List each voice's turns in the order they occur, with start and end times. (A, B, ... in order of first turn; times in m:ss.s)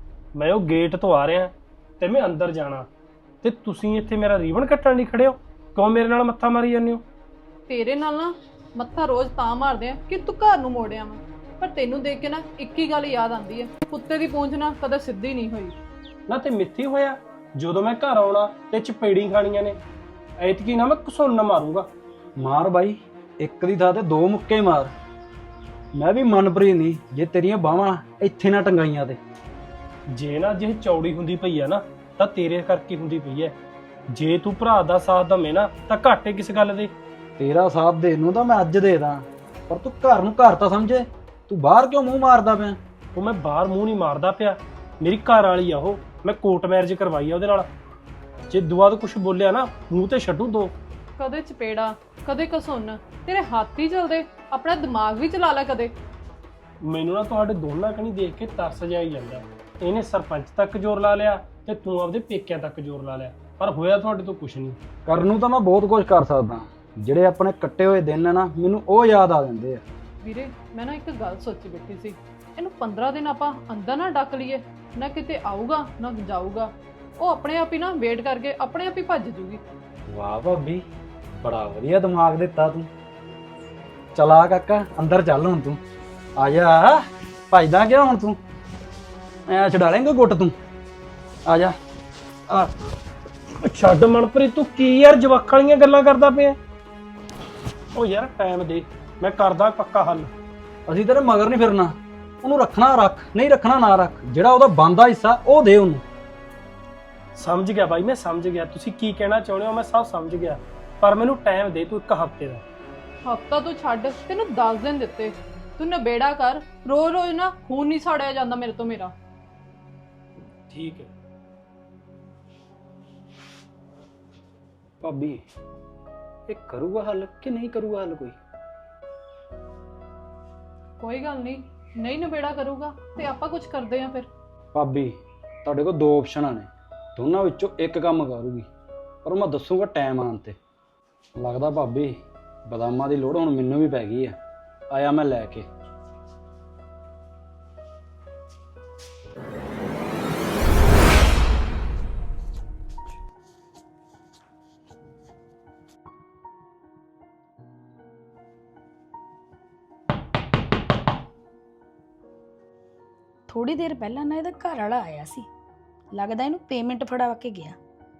0:00.3-0:02.9 A
0:03.4-0:07.0 A
0:07.7-0:15.7 B
0:16.3-0:19.8 A
0:20.4-0:21.9 A
0:22.4-0:24.9 C
0:25.9-0:29.2 C
0:30.1-0:33.6 A
0:34.1-0:36.9 A
0:37.4-0:42.8 C
0:43.1-0:47.7 A
0:48.5-0:50.7 A
0:51.2-0:55.9 B
0:56.8-1:04.8 A
1:05.0-1:09.8 C
1:10.2-1:19.6 B
1:20.1-1:20.8 C
1:21.4-1:22.9 C
1:24.1-1:25.8 C
1:26.4-1:28.4 C
1:29.5-1:30.5 C
1:31.4-1:31.7 C
1:33.6-1:36.6 A
1:37.9-1:40.3 A
1:40.9-1:46.0 C
1:47.4-1:52.6 A
1:53.2-1:59.1 B
2:00.7-2:01.1 A
2:05.0-2:05.4 C
2:06.5-2:08.4 C
2:11.0-2:14.3 B
2:14.7-2:18.7 C
2:19.2-2:20.6 C
2:21.4-2:24.4 C
2:24.9-2:25.6 C
2:43.5-2:45.5 D
2:46.1-2:47.8 D